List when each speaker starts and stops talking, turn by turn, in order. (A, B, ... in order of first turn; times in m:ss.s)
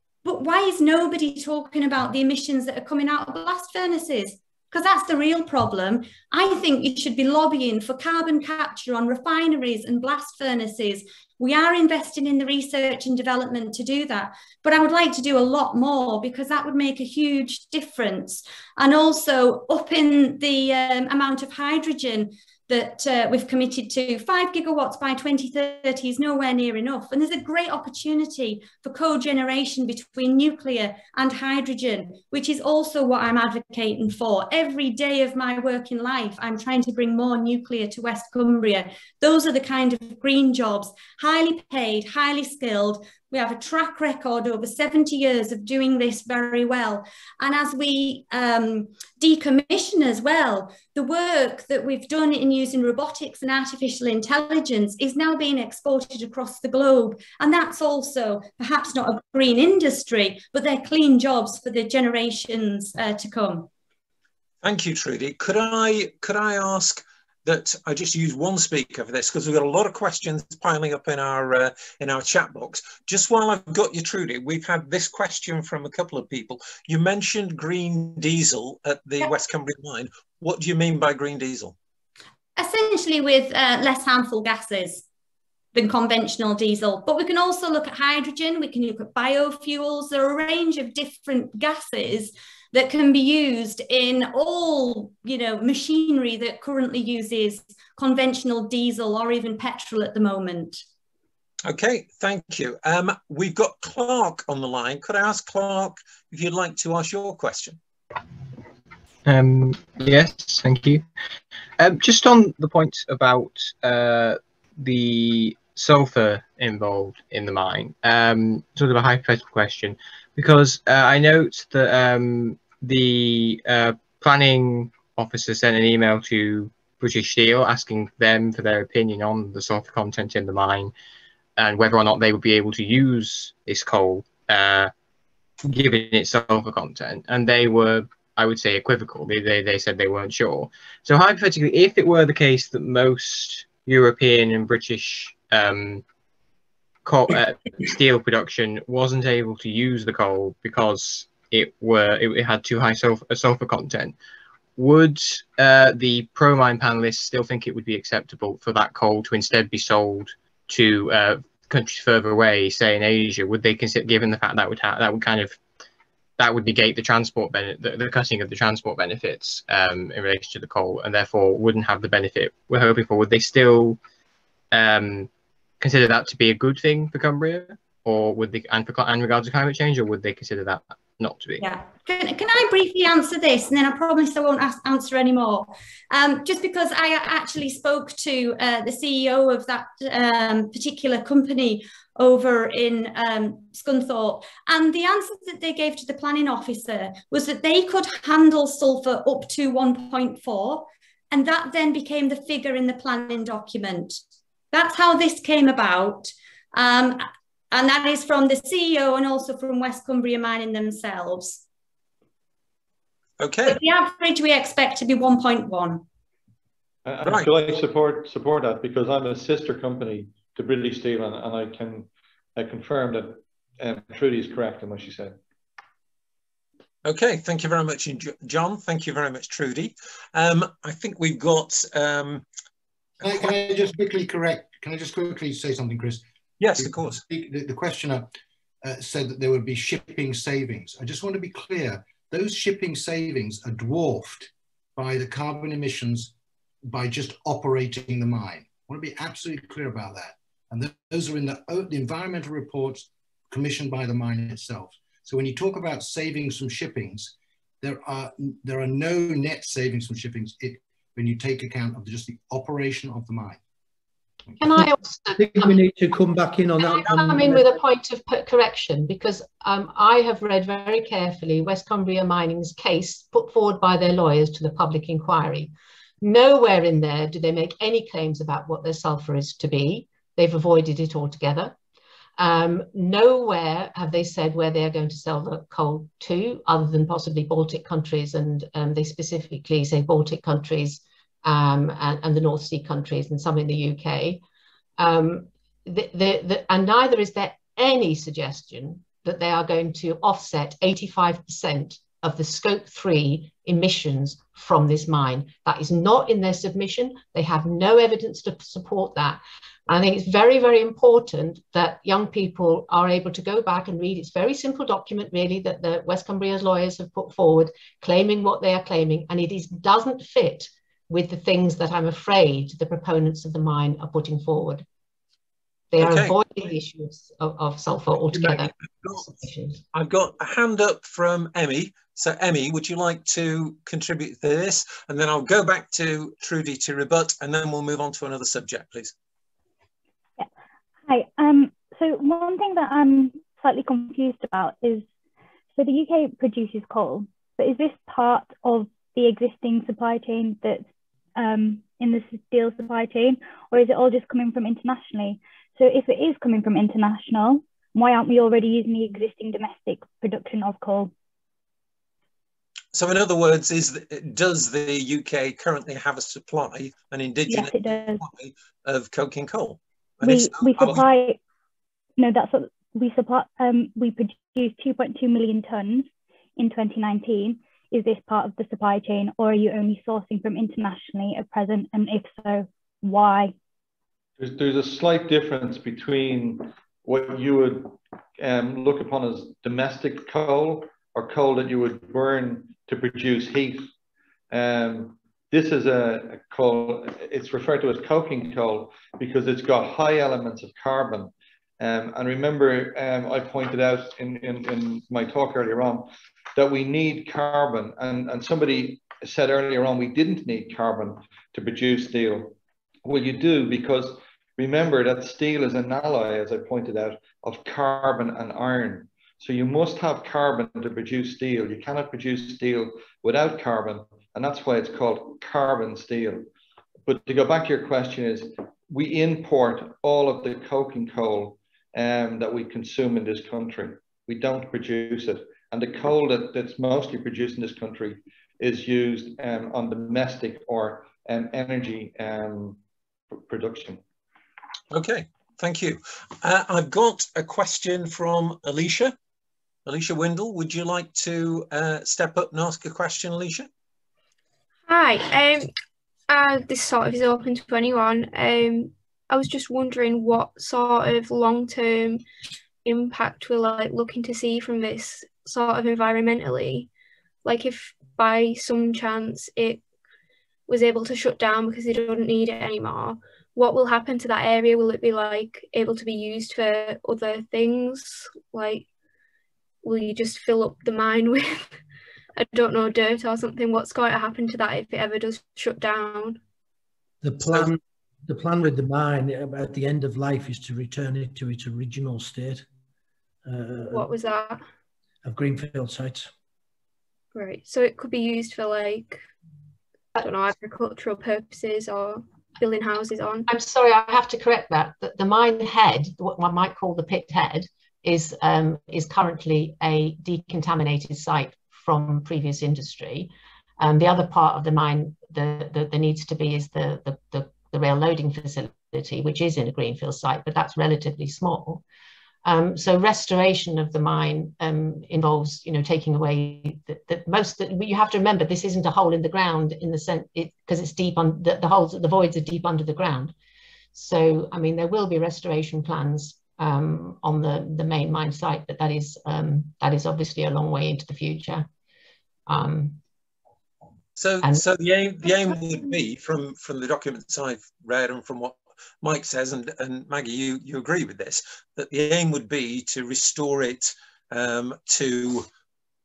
0:00.2-1:03.7 A
1:04.6-1:21.8 B
1:22.6-1:25.0 A
1:25.7-1:40.8 A
1:41.6-1:47.8 B
1:49.2-1:51.0 C
1:51.8-2:10.9 C
2:11.6-2:14.9 C
2:15.6-2:26.0 C
2:27.0-2:34.2 C
2:34.8-2:45.6 C
2:46.4-2:54.0 C
2:54.7-3:01.7 C
3:01.6-3:24.2 A
3:24.7-3:31.6 A
3:33.4-3:33.8 B
3:33.6-3:36.0 A
3:37.0-3:45.4 D
3:37.2-3:37.5 B
3:47.0-3:52.4 B
3:53.2-3:56.2 E
3:53.2-3:53.5 B
3:56.6-3:57.2 B
3:56.8-3:58.3 E
3:58.8-4:06.3 E
4:06.9-4:23.6 E
4:24.6-4:25.9 F
4:24.8-4:27.8 G
4:26.8-4:41.8 F
4:42.4-4:54.4 F
4:55.0-5:24.9 F
5:25.9-5:29.8 F
5:26.0-5:26.4 B
5:28.3-5:29.3 B
5:29.9-5:39.1 B
5:41.1-5:45.1 H
5:45.7-6:01.1 H
6:02.9-6:11.0 B
6:07.5-6:08.2 H
6:10.2-6:11.4 H
6:12.2-6:23.5 H
6:24.4-6:33.9 D
6:34.5-7:06.5 D
7:07.1-7:22.8 D
7:23.4-7:24.0 D
7:24.9-7:29.2 B
7:29.9-7:33.7 B
7:34.9-7:35.7 I
7:36.3-7:42.2 I
7:42.8-7:46.9 I
7:47.4-7:49.8 I
7:50.7-7:58.9 I
7:59.8-8:01.7 I
8:02.4-8:06.4 I
8:07.2-8:12.7 G
8:13.4-8:14.1 G
8:13.9-8:14.6 I
8:15.2-8:16.3 G
8:17.4-8:19.2 I
8:20.2-8:23.5 I
8:23.5-8:41.8 F
8:42.4-8:53.3 F
8:53.9-9:01.7 F
9:02.5-9:03.0 F
9:04.2-9:15.5 B